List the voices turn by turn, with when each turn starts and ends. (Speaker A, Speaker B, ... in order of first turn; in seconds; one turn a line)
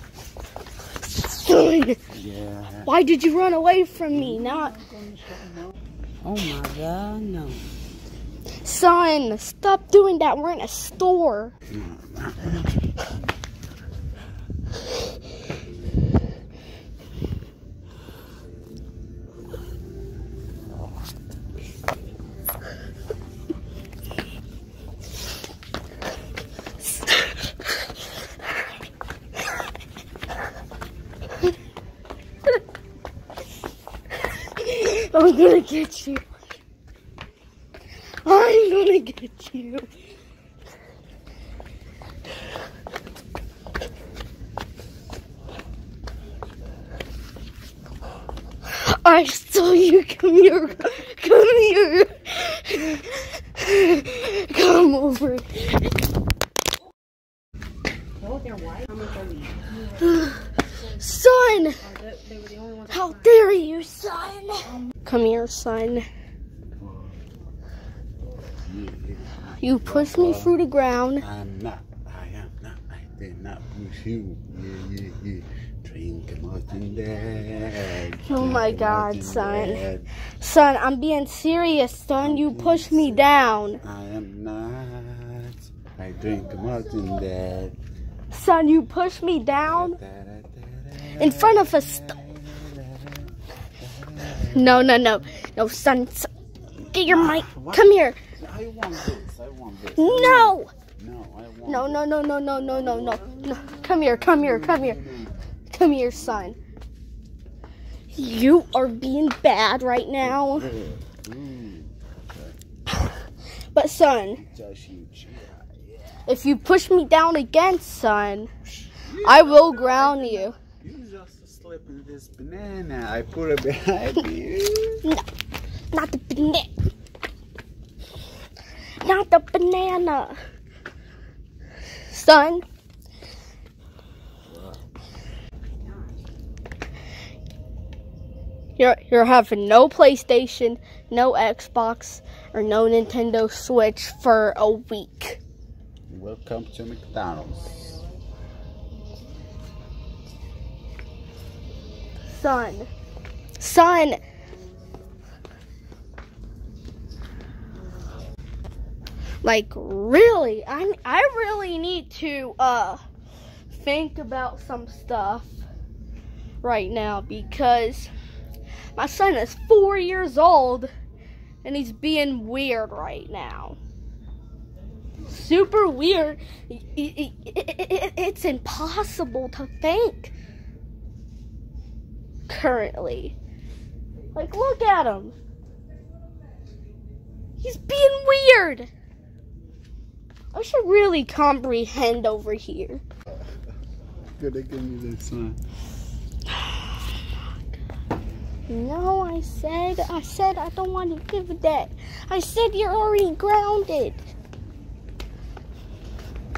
Speaker A: 1.0-2.0
Speaker B: 2.1-2.9
Speaker A: 2.8-4.7
Speaker B: 4.1-5.8
Speaker C: 6.2-7.7
Speaker A: 8.6-11.5
Speaker B: 11.7-12.9
Speaker A: 34.5-36.3
Speaker A: 38.2-39.9
Speaker A: 48.7-55.9
Speaker C: 58.2-60.1
Speaker A: 60.0-61.8
Speaker C: 61.6-63.3
Speaker A: 62.9-66.0
Speaker B: 66.8-67.2
Speaker B: 68.6-70.5
Speaker A: 69.6-71.2
Speaker B: 71.2-80.1
Speaker A: 78.2-79.8
Speaker A: 80.4-83.8
Speaker B: 82.2-83.3
Speaker B: 83.8-87.8
Speaker A: 88.3-90.0
Speaker B: 89.7-95.0
Speaker A: 91.2-92.2
Speaker A: 94.5-96.3
Speaker A: 96.9-98.2
Speaker B: 97.0-102.0
Speaker A: 100.0-100.7
Speaker A: 101.7-105.0
Speaker B: 102.6-105.3
Speaker A: 105.7-106.6
Speaker A: 108.1-110.7
Speaker B: 110.2-112.6
Speaker A: 113.7-114.4
Speaker B: 114.4-116.2
Speaker A: 116.3-118.5
Speaker B: 118.9-125.0
Speaker A: 119.2-120.5
Speaker A: 125.9-126.7
Speaker A: 129.0-130.4
Speaker A: 132.1-132.6
Speaker A: 138.8-145.4
Speaker B: 146.1-148.0
Speaker A: 152.3-152.9
Speaker A: 153.6-154.2
Speaker A: 159.4-163.0
Speaker A: 163.7-165.6
Speaker A: 166.6-168.1
Speaker A: 168.9-170.9
Speaker A: 171.6-173.8
Speaker A: 175.3-180.3
Speaker A: 182.5-183.3
Speaker A: 184.3-185.3
Speaker A: 187.6-188.9
Speaker A: 190.5-193.0
Speaker B: 194.4-195.6
Speaker A: 196.6-196.9
Speaker A: 198.7-204.2